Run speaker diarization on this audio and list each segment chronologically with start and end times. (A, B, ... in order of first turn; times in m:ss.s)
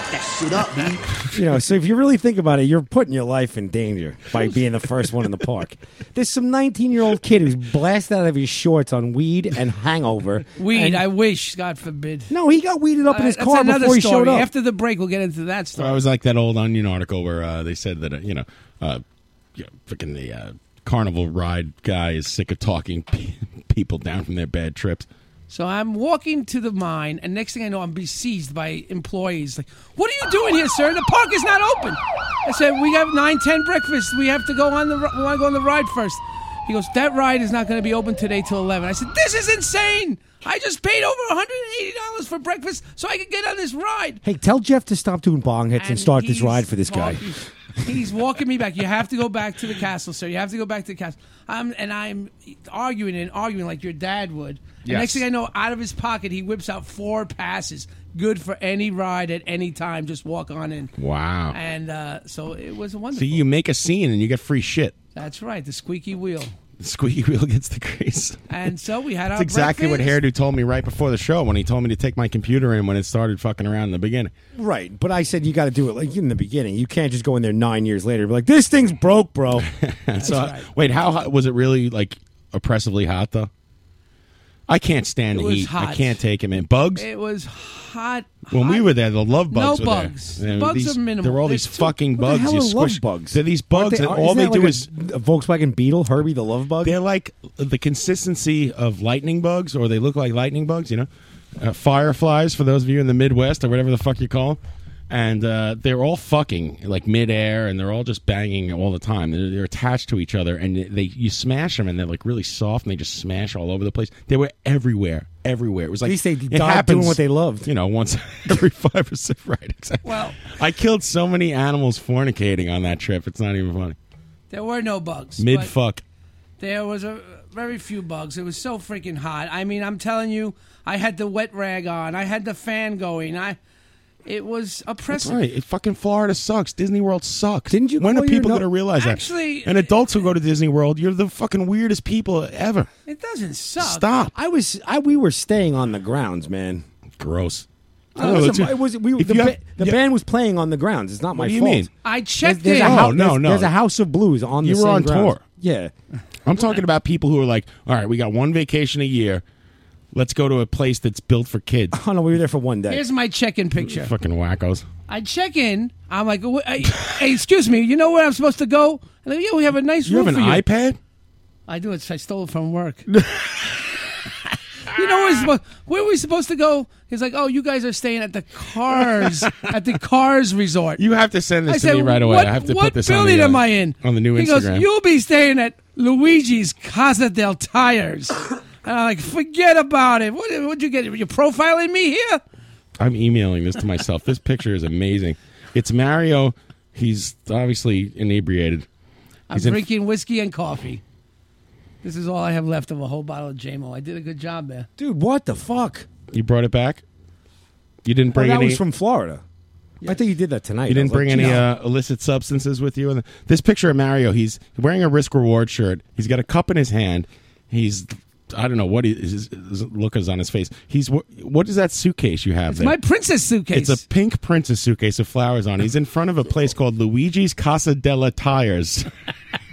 0:01.3-0:11.0 A
0:10.6-0:12.3 B
0:12.3-0:14.5 A
0:13.1-0:16.0 B
0:15.8-0:19.0 C
0:19.6-0:25.1 C
0:25.5-0:44.2 B
0:44.2-0:47.3 A
0:45.8-1:00.9 B
0:54.8-0:55.2 C
1:01.0-1:01.6 C
1:01.5-1:03.4 B
1:03.1-1:05.0 C
1:05.2-1:06.5 B
1:06.8-1:08.4 C
1:08.5-1:10.2 B
1:09.4-1:14.3 C
1:14.6-1:19.7 A
1:19.6-1:23.5 C
1:20.2-1:20.7 B
1:24.7-1:27.0 C
1:25.3-1:26.2 B
1:27.0-1:28.9 B
1:28.5-1:34.9 C
1:29.5-1:31.9 B
1:32.2-1:37.0 A
1:36.8-2:04.0 C
1:56.0-1:57.7 A
2:00.0-2:00.4 B
2:04.5-2:05.7 B
2:05.4-2:06.0 C
2:06.6-2:13.6 B
2:14.2-2:15.4 B
2:15.1-2:22.9 C
2:17.7-2:18.7 A
2:19.0-2:20.3 B
2:23.1-2:24.1 B
2:23.8-2:24.3 C
2:24.4-2:26.8 A
2:27.2-2:30.0 C
2:28.2-2:31.9 A
2:31.3-2:31.9 C
2:32.0-2:33.1 B
2:32.4-2:35.9 A
2:32.8-2:33.7 C
2:34.6-2:35.4 C
2:36.5-2:39.4 C
2:40.1-2:42.0 C
2:41.9-2:43.0 A
2:42.9-2:44.1 B
2:43.8-2:44.9 C
2:45.1-2:50.6 B
2:50.0-2:51.0 C
2:51.7-2:53.0 B
2:53.2-2:53.4 C
2:54.9-3:01.0 B
3:01.0-3:04.9 C
3:01.7-3:12.4 B
3:13.0-3:18.9 C
3:19.5-3:21.0 B
3:19.5-3:19.8 C
3:22.0-3:24.9 B
3:25.0-3:26.1 A
3:26.3-3:27.0 C
3:28.0-3:28.8 C
3:28.3-3:29.4 A
3:30.0-3:31.6 A
3:30.9-3:43.0 C
3:42.7-3:44.0 B
3:43.7-3:49.1 C